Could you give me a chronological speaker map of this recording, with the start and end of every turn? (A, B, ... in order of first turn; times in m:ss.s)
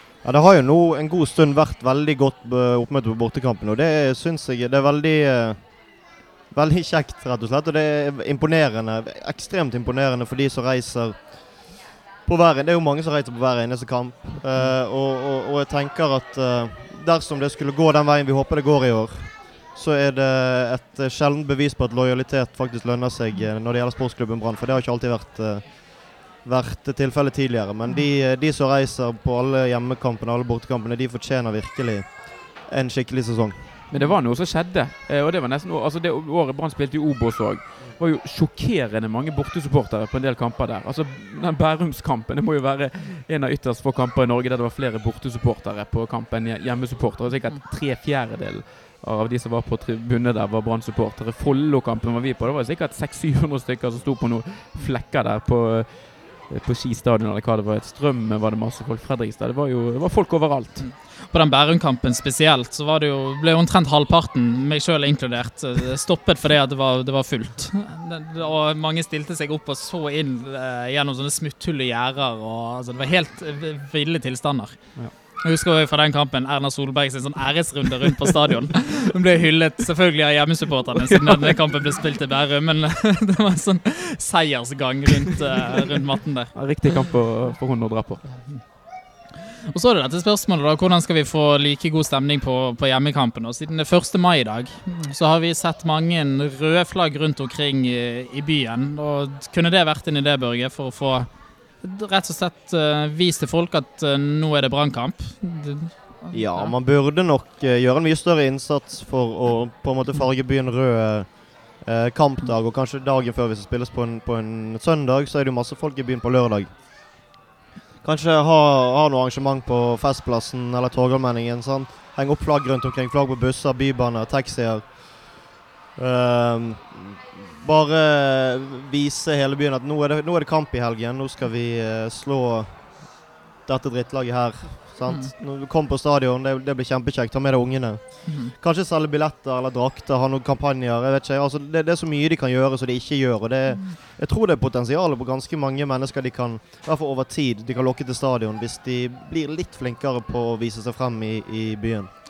0:00.2-0:33.7 A
0:33.9-1:00.9 B
1:00.8-1:27.0 C
1:20.9-1:21.6 B
1:26.5-1:28.6 B
1:28.3-1:28.6 C
1:29.7-1:46.7 C
1:46.3-1:56.7 A
1:58.0-2:32.1 A
2:15.1-2:15.3 C
2:18.2-2:18.5 C